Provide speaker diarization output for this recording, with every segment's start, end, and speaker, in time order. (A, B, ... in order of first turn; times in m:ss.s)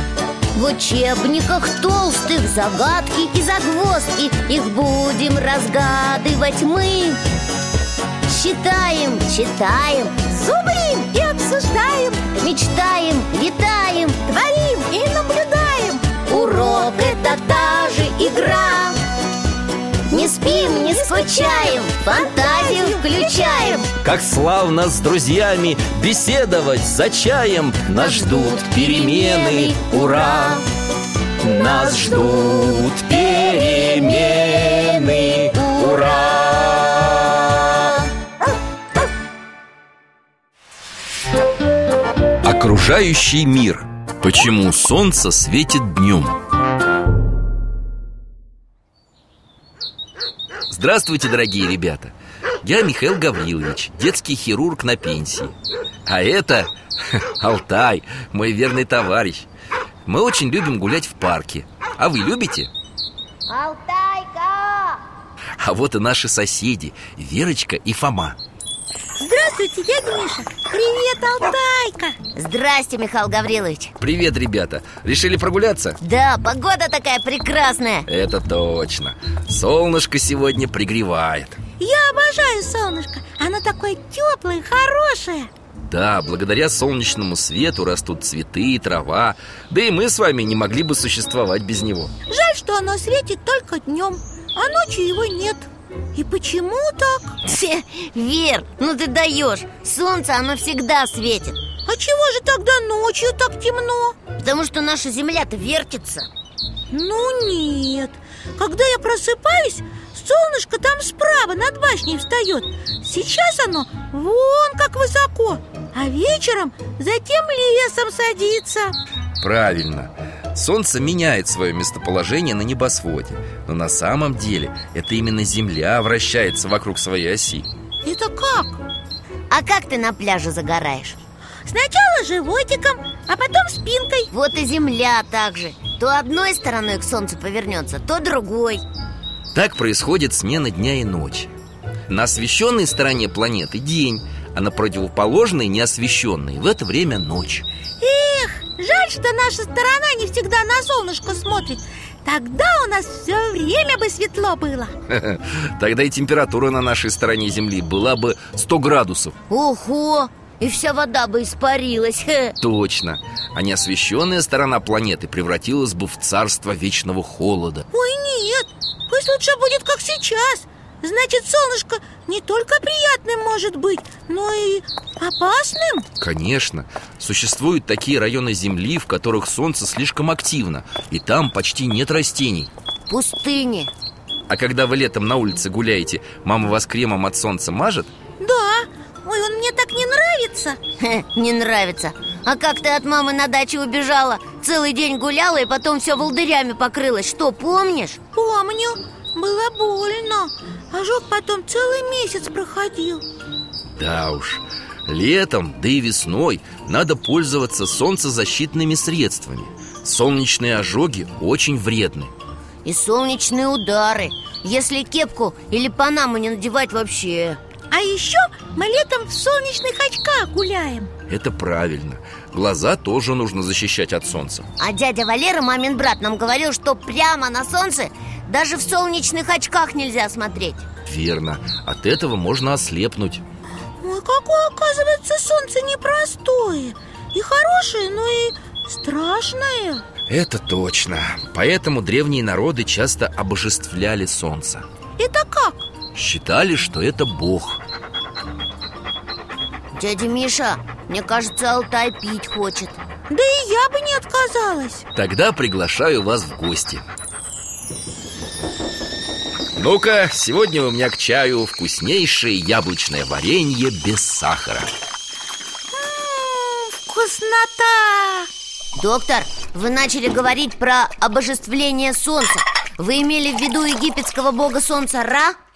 0:00.6-0:07.2 A
0:08.3-0:10.2 A
0:10.2-0:12.3 B
0:12.4-0:14.2 A
0:14.3-0:17.1 B
0:16.3-0:19.0 A
0:20.1-0:23.8 A
0:20.1-0:23.9 B
0:24.0-0:30.6 C
0:29.0-0:30.5 A
0:31.4-0:37.4 C
0:42.4-0:46.4 C
0:50.7-0:55.6 C
0:56.1-0:59.5 C
1:00.1-1:02.7 C
1:03.5-1:05.0 A
1:05.6-1:08.4 C
1:09.2-1:12.2 B
1:12.4-1:13.9 A
1:14.0-1:16.0 C
1:16.0-1:18.1 A
1:18.1-1:21.6 C
1:21.8-1:25.5 B
1:25.8-1:32.1 C
1:32.3-1:37.4 B
1:37.4-1:41.6 A
1:41.9-1:44.2 B
1:44.4-1:46.3 A
1:46.9-1:59.0 B
1:59.4-2:07.7 C
2:08.0-2:08.8 B
2:09.5-2:11.2 A
2:11.7-2:14.3 B
2:14.3-2:18.8 A
2:19.5-2:21.5 C
2:22.1-2:27.7 C
2:28.0-2:34.9 B
2:35.1-2:39.4 C
2:39.5-2:42.6 A
2:42.6-2:47.9 C
2:47.9-2:56.1 B
2:56.2-3:02.7 C
3:03.1-3:03.9 A
3:04.5-3:08.1 C
3:08.4-3:10.8 B
3:11.0-3:18.2 A
3:18.3-3:23.2 B
3:24.0-3:32.3 C
3:32.8-3:37.6 A
3:37.9-3:41.1 B
3:41.3-3:44.7 C
3:44.8-3:50.8 A
3:51.1-3:53.4 C
3:54.0-4:00.0 B
4:00.3-4:04.9 C
4:05.2-4:05.9 B
4:06.1-4:07.8 C
4:09.9-4:13.0 A
4:13.3-4:15.0 B
4:15.1-4:17.1 C
4:19.8-4:24.9 C
4:25.9-4:28.5 B
4:29.0-4:35.6 A